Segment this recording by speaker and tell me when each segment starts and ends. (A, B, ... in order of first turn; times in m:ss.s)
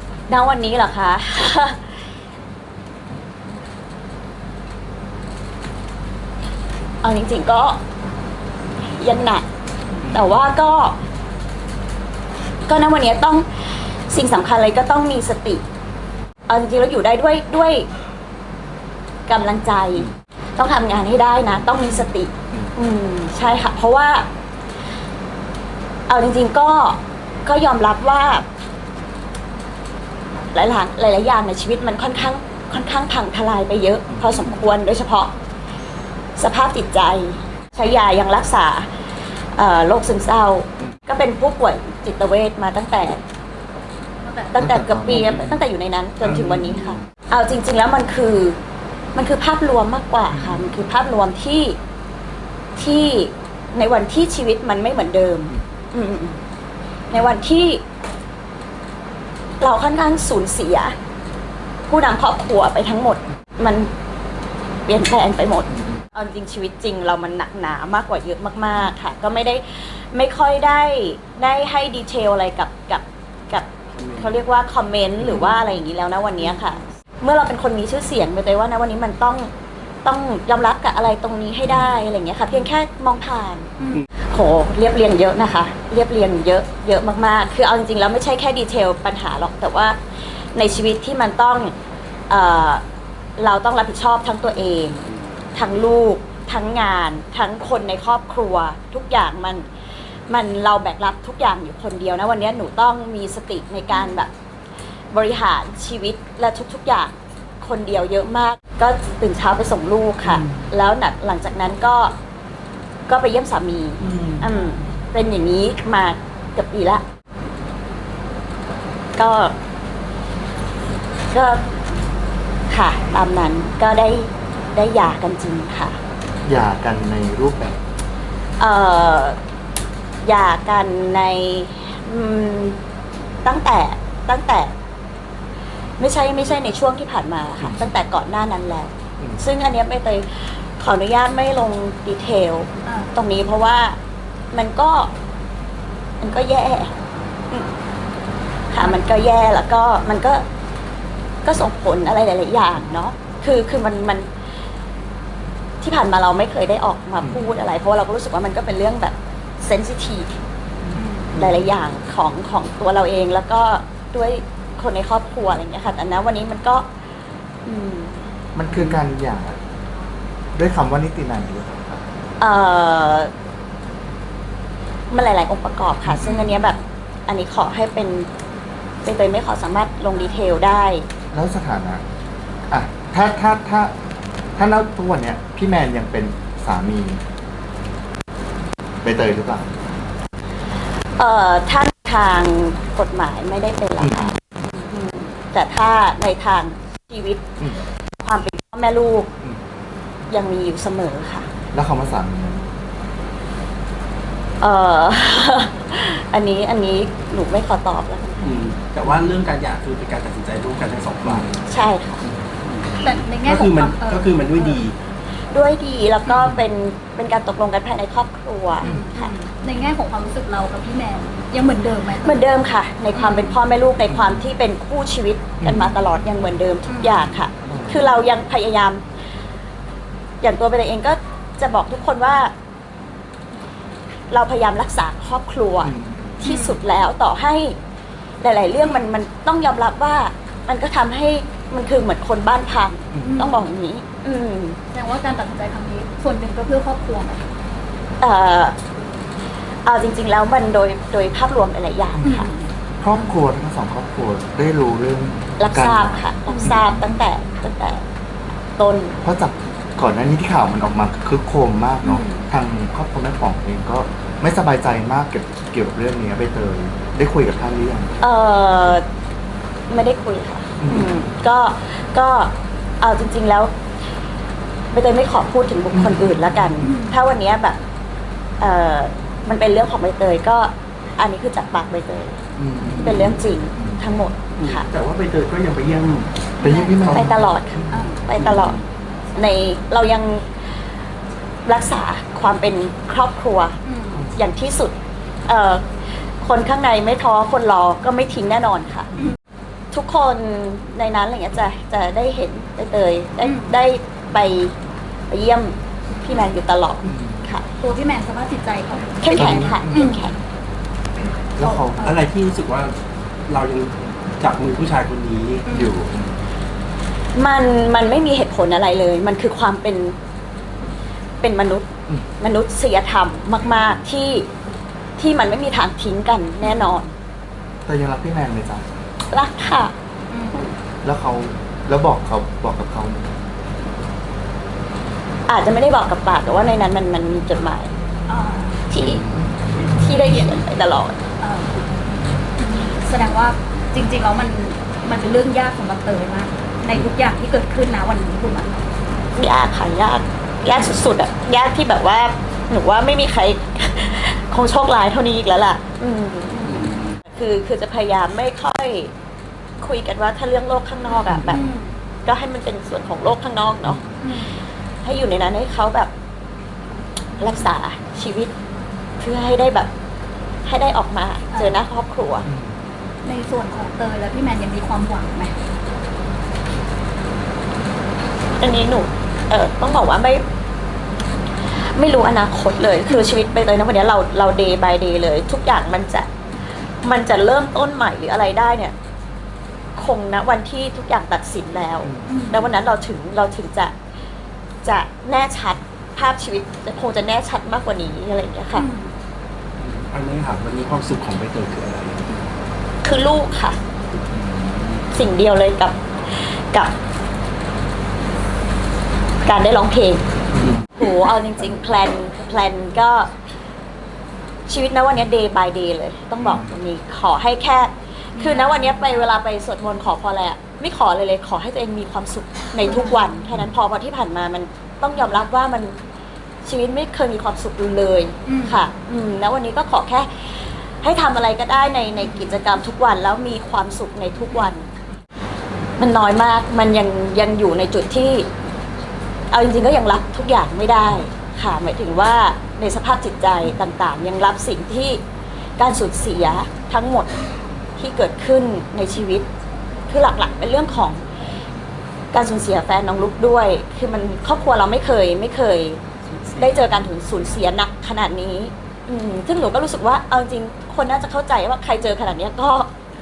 0:00.3-0:02.0 A
0:07.0-0:07.8 A
0:09.0-0:09.4 A
0:10.1-0:11.0 A
0:12.7-0:15.6 A
0:16.5-0:17.9 A
0:19.3-0:24.3 A
0:26.1-0:28.5 A
0:30.5-0:35.3 A
0:36.4-0:38.9 A
0:39.6-0:43.2 A
0:44.2-0:44.7 B
0:44.5-0:48.6 A
0:44.6-0:45.6 C
0:49.2-0:51.8 A
0:52.8-0:56.4 A
0:57.1-0:57.8 A
0:59.6-1:01.0 A
1:01.9-1:03.9 A
1:04.9-1:19.5 A
1:14.0-1:14.3 D
1:20.0-1:23.7 A
1:24.3-1:30.0 A
1:30.5-1:31.7 A
1:32.3-1:32.8 A
1:33.4-1:39.7 A
1:40.3-1:44.3 A
1:45.1-1:52.2 A
1:53.1-1:57.0 A
1:54.1-1:54.4 D
1:59.2-1:59.6 A
2:01.3-2:01.7 A
2:02.7-2:06.0 A
2:06.4-2:07.8 C
2:08.6-2:09.4 A
2:10.2-2:12.8 A
2:13.4-2:14.7 A
2:16.0-2:24.0 A
2:24.5-2:25.1 A
2:26.2-2:26.9 A
2:28.7-2:30.4 A
2:31.4-2:34.3 A
2:35.8-2:40.4 A
2:41.0-2:41.5 C
2:41.3-2:46.9 A
2:47.6-2:48.2 A
2:48.6-2:49.6 C
2:50.6-2:52.0 C
2:52.4-2:53.3 A
2:55.1-2:58.3 A
2:56.2-2:56.6 B
2:59.0-3:01.1 A
3:01.3-3:02.0 C
3:02.7-3:03.9 C
3:04.6-3:07.2 C
3:09.0-3:09.7 C
3:11.2-3:17.4 A
3:14.0-3:14.4 C
3:18.2-3:19.3 A
3:20.3-3:21.5 A
3:21.7-3:22.7 C
3:24.6-3:28.4 A
3:28.4-3:31.6 D
3:31.6-3:32.2 A
3:32.2-3:35.0 D
3:33.0-3:34.8 B
3:35.5-3:39.4 A
3:38.8-3:42.5 B
3:38.8-3:39.1 C
3:42.2-3:49.0 A
3:43.1-3:43.6 B
3:44.1-3:44.4 C
3:45.6-3:46.0 C
3:46.9-3:47.3 B
3:47.7-3:48.1 C
3:50.4-3:52.5 A
3:54.3-3:57.8 A
3:55.8-3:56.4 C
3:56.4-3:56.8 B
3:58.4-4:04.8 A
4:03.2-4:03.7 B
4:04.9-4:07.4 B
4:08.2-4:08.8 A
4:09.8-4:12.5 A
4:12.2-4:12.7 B
4:13.0-4:17.1 C
4:15.6-4:18.0 A
4:18.8-4:19.2 A
4:19.2-4:28.2 C
4:28.2-4:29.1 A
4:29.9-4:33.7 A
4:30.8-4:31.2 C
4:34.9-4:37.8 A
4:35.9-4:36.9 C
4:36.8-4:37.2 B
4:38.6-4:42.4 A
4:42.6-4:44.0 C
4:42.8-4:43.3 D
4:43.0-4:44.9 A
4:44.6-4:47.3 D
4:46.6-4:47.1 B
4:46.6-4:47.6 C
4:47.1-4:48.8 A
4:47.9-4:48.2 B
4:48.4-4:48.8 D
4:49.4-4:50.6 A
4:51.7-4:53.8 A
4:53.8-4:54.3 B
4:54.3-4:55.0 A
4:55.5-4:55.8 A
4:56.4-4:59.1 A
4:59.9-5:04.8 A
5:03.4-5:03.7 B
5:05.3-5:07.7 A
5:07.1-5:07.5 C
5:07.8-5:10.2 B
5:09.2-5:10.4 A
5:09.3-5:10.2 C
5:11.6-5:12.1 C
5:11.6-5:12.2 B
5:12.0-5:13.0 D
5:13.5-5:15.6 D
5:15.7-5:16.0 B
5:15.7-5:16.4 C
5:17.3-5:20.2 A
5:21.4-5:24.5 A
5:25.2-5:27.1 A
5:27.9-5:28.9 C
5:29.3-5:29.9 A
5:30.3-5:30.7 B
5:31.0-5:33.3 C
5:35.5-5:37.9 A
5:38.3-5:38.8 B
5:38.9-5:39.3 A
5:39.8-5:41.2 A
5:41.4-5:41.8 B
5:42.6-5:48.8 B
5:49.3-5:59.1 A
5:56.6-5:57.1 D
5:59.8-6:01.7 A
6:01.5-6:01.9 B
6:02.2-6:04.0 A
6:04.2-6:04.6 B
6:05.0-6:06.1 A
6:07.4-6:08.5 A
6:09.2-6:09.9 A
6:10.7-6:12.5 A
6:11.5-6:11.8 B
6:12.5-6:12.7 C
6:13.2-6:15.5 B
6:18.6-6:20.4 A
6:21.9-6:26.3 A
6:27.0-6:28.9 A
6:30.0-6:34.0 A
6:32.1-6:32.3 C
6:32.3-6:32.7 B
6:34.8-6:38.9 A
6:38.8-6:39.1 B
6:39.8-6:42.2 D
6:43.0-6:43.8 A
6:44.4-6:44.8 D
6:45.1-6:46.9 A
6:49.4-6:50.2 A
6:51.0-6:53.3 A
6:54.7-7:06.0 A
6:58.4-6:59.2 B
7:02.8-7:03.3 B
7:06.6-7:14.9 A
7:08.5-7:08.8 B
7:16.0-7:18.5 A
7:19.5-7:25.2 A
7:25.8-7:27.3 A
7:28.0-7:29.5 A
7:30.1-7:31.2 A
7:32.3-7:36.0 A
7:36.5-7:42.9 A